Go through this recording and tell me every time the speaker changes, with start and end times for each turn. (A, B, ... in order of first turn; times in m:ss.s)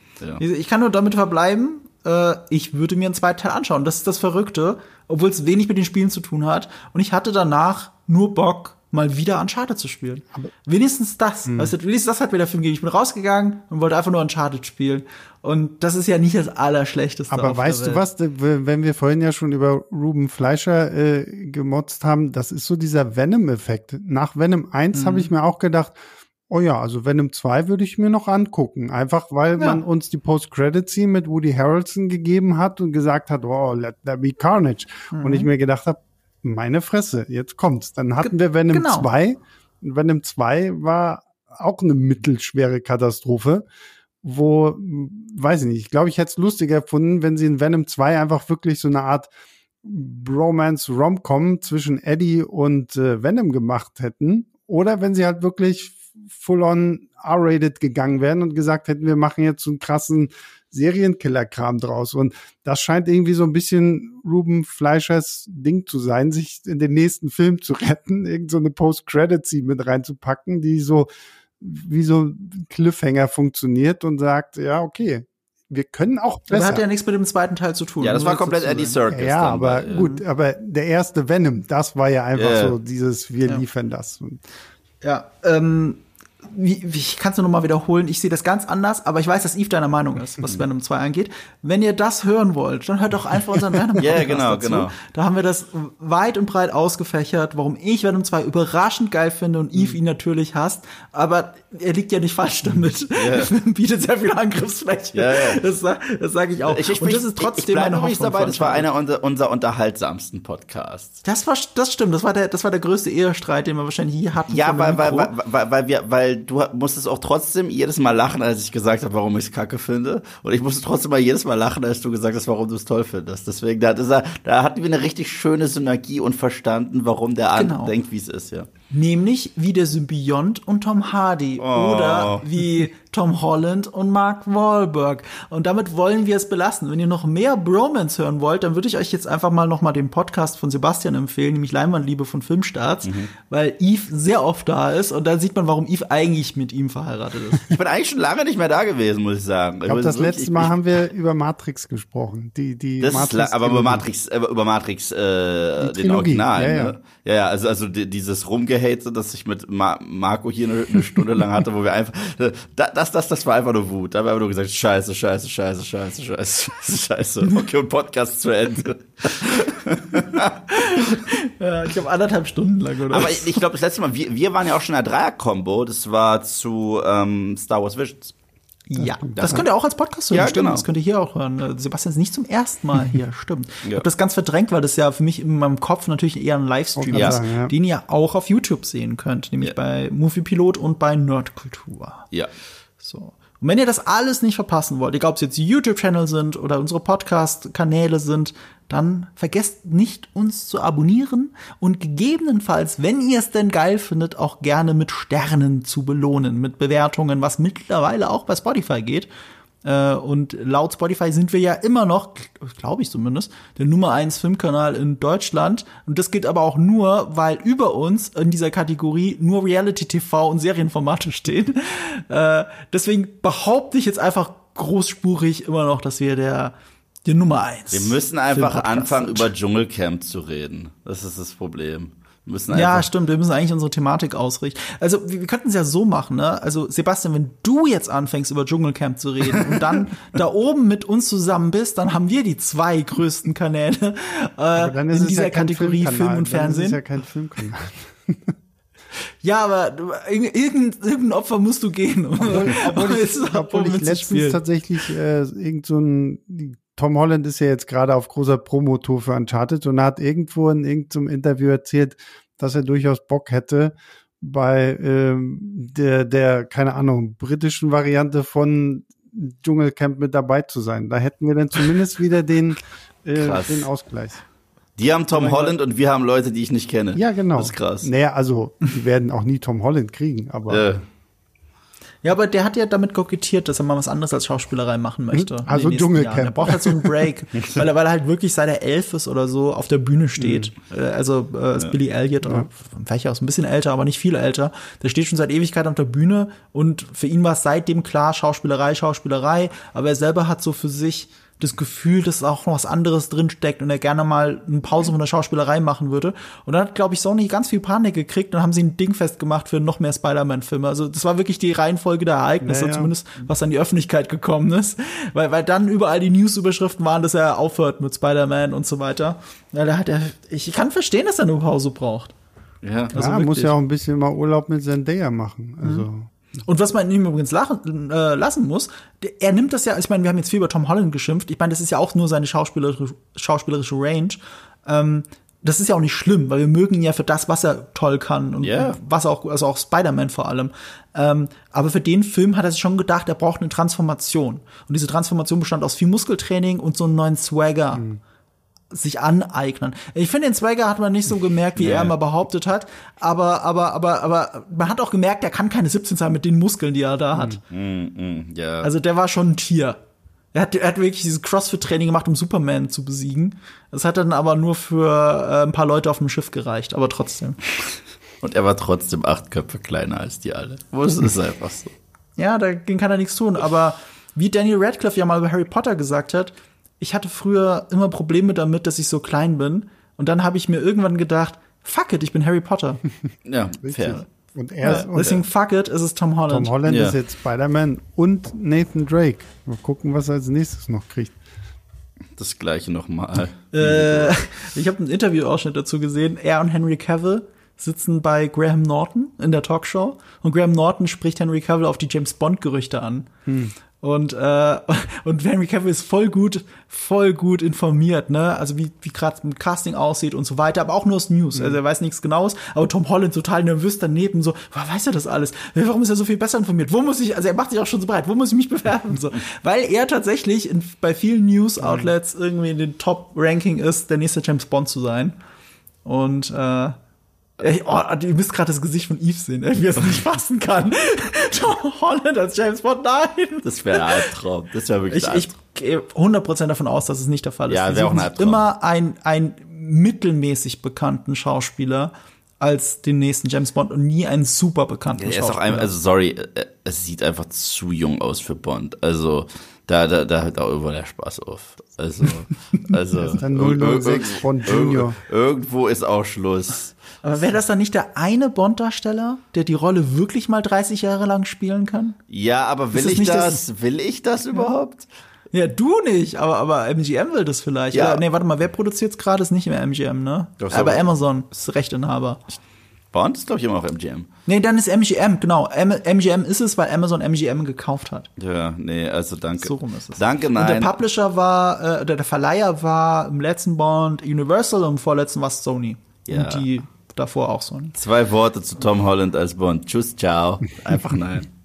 0:00.4-0:18.0 A
0:11.5-0:11.7 B
0:17.3-0:26.0 B
0:24.9-0:25.3 A
0:26.5-0:43.7 B
0:35.1-0:35.5 A
0:38.2-0:39.1 A
0:44.2-0:49.3 B
0:49.8-1:11.1 B
1:11.6-1:16.8 B
1:16.5-1:19.0 A
1:18.0-1:20.0 C
1:19.1-1:24.4 B
1:19.9-1:20.2 A
1:22.4-1:22.7 C
1:25.0-1:48.8 A
1:34.0-1:34.9 C
1:43.1-1:43.5 C
1:45.1-1:45.6 C
1:46.6-1:51.2 C
1:51.2-1:55.3 A
1:54.5-2:08.7 C
2:07.5-2:07.9 A
2:08.9-2:27.8 A
2:11.6-2:12.4 C
2:23.0-2:23.3 C
2:27.6-2:30.7 C
2:29.9-2:34.0 B
2:33.0-2:51.0 C
2:35.8-2:37.0 B
2:50.7-2:53.6 A
2:53.1-2:58.3 C
2:58.9-3:12.3 A
2:59.4-2:59.6 C
3:00.3-3:00.8 C
3:07.0-3:07.7 B
3:07.1-3:07.4 C
3:13.0-3:29.3 A
3:29.8-3:49.5 A
3:47.9-3:53.1 C
3:52.7-4:07.0 A
4:04.8-4:08.5 B
4:09.4-4:14.6 A
4:12.4-4:34.4 B
4:33.4-4:33.9 C
4:35.0-4:38.1 C
4:35.3-4:35.7 A
4:37.1-4:40.9 B
4:40.7-4:41.0 C
4:42.2-5:22.3 A
4:45.3-4:47.2 B
4:50.4-4:50.7 B
5:12.6-5:13.1 B
5:22.8-5:23.2 C
5:23.1-5:23.7 A
5:23.1-5:26.3 B
5:26.6-5:48.1 A
5:38.6-5:39.0 C
5:48.9-5:57.6 A
5:51.8-5:52.1 C
5:57.7-5:58.9 C
5:58.8-6:00.0 A
6:00.5-6:07.6 A
6:08.4-6:11.9 C
6:12.4-6:23.0 A
6:23.4-6:24.2 C
6:23.8-6:25.4 B
6:24.8-6:26.7 A
6:24.9-6:25.2 C
6:26.5-6:31.4 B
6:26.8-6:27.2 C
6:32.4-6:34.4 C
6:33.7-6:43.3 A
6:43.5-6:43.7 B
6:44.0-7:05.3 A
7:01.8-7:02.1 B
7:06.0-7:07.0 A
7:07.6-7:14.3 A
7:13.6-7:15.5 C
7:15.1-7:25.9 A
7:17.7-7:18.6 C
7:25.2-7:37.0 C
7:33.2-7:35.2 B
7:37.2-7:42.2 A
7:42.3-7:45.1 C
7:42.9-7:43.6 A
7:45.5-7:52.4 A
7:47.9-7:48.2 C
7:50.6-7:51.0 C
7:53.1-7:54.3 C
7:54.4-7:58.3 A
7:58.4-8:01.0 C
7:59.6-8:08.0 A
8:06.3-8:06.7 C
8:08.0-8:11.5 C